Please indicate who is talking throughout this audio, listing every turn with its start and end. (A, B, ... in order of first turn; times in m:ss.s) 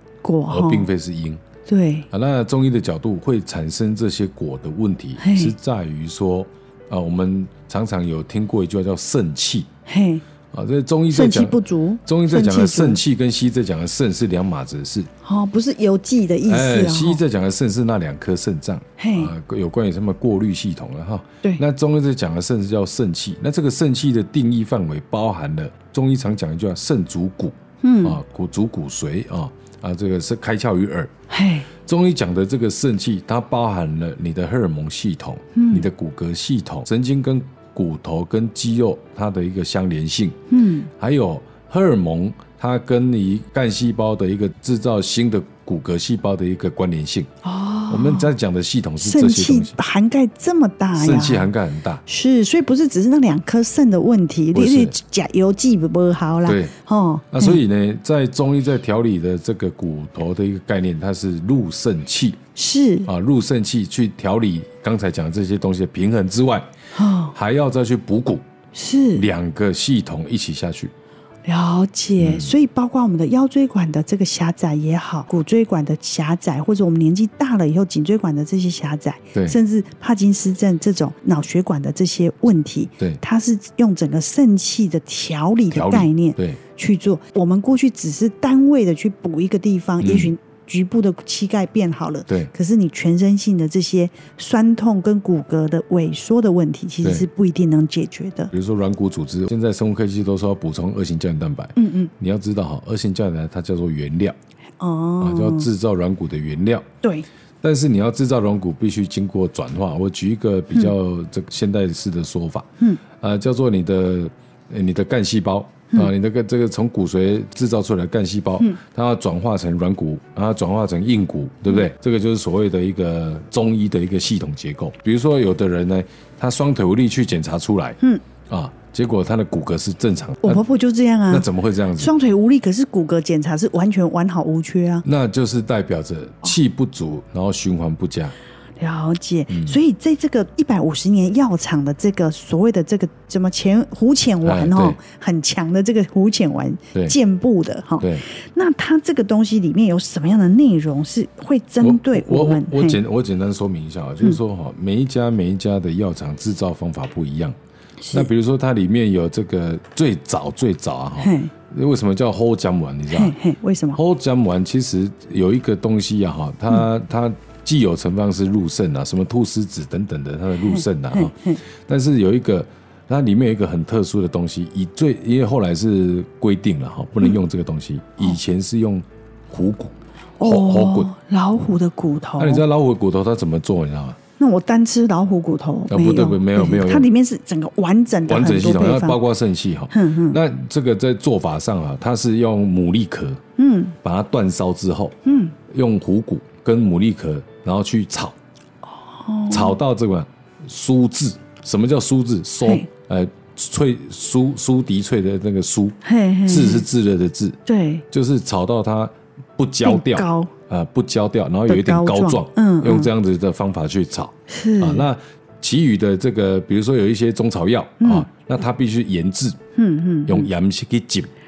0:00.2-0:00.9 A
0:00.5-0:01.4 B
0:01.6-0:02.1 A
0:02.1-0:09.7 B
0:05.2-0:05.5 A
0:09.8-0:10.2 A
0:10.5-0:15.1 B
0:11.1-0:13.0 A
0:15.2-0:17.2 A
0:16.4-0:31.1 B
0:19.0-0:19.3 A
0:27.8-0:28.2 A
0:31.3-0:31.7 A
0:31.8-0:40.4 B
0:35.5-0:35.8 A
0:40.5-0:40.9 A
0:41.0-0:47.3 B
0:47.4-0:48.3 A
0:47.9-0:49.8 B
0:49.0-0:51.5 A
0:50.9-0:52.0 B
0:52.0-0:57.6 A
0:54.5-0:54.9 B
0:56.4-0:56.7 B
0:57.3-1:02.4 B
1:02.5-1:03.1 A
1:03.0-1:06.7 B
1:06.9-1:07.3 A
1:07.3-1:08.4 B
1:08.7-1:09.3 A
1:09.1-1:10.9 B
1:11.4-1:38.5 A
1:12.2-1:12.5 B
1:25.7-1:26.6 B
1:30.0-1:30.3 B
1:38.5-1:44.4 B
1:41.8-1:42.1 A
1:44.8-1:45.7 A
1:45.2-1:46.8 B
1:47.6-2:10.6 B
2:10.4-2:15.0 A
2:11.3-2:12.1 B
2:15.0-2:18.3 B
2:18.8-2:33.0 A
2:19.5-2:19.8 B
2:24.4-2:25.0 B
2:31.8-2:37.6 B
2:38.0-2:38.3 A
2:38.1-2:43.4 B
2:41.2-2:41.5 A
2:43.1-2:44.0 A
2:43.9-3:01.1 B
2:50.6-2:51.6 A
3:00.4-3:02.6 A
3:02.4-3:04.2 B
3:04.4-3:09.2 A
3:05.9-3:07.1 B
3:08.3-3:13.4 B
3:09.9-3:10.4 A
3:13.6-3:14.0 A
3:14.0-3:15.2 B
3:15.2-3:15.6 A
3:15.7-3:18.4 B
3:18.9-3:19.8 A
3:19.5-3:27.6 B
3:26.0-3:26.8 A
3:27.6-3:28.0 A
3:28.1-3:39.6 B
3:29.8-3:30.5 A
3:31.7-3:33.1 A
3:34.5-3:35.1 A
3:38.0-3:38.3 A
3:39.8-3:40.5 A
3:40.3-3:41.3 B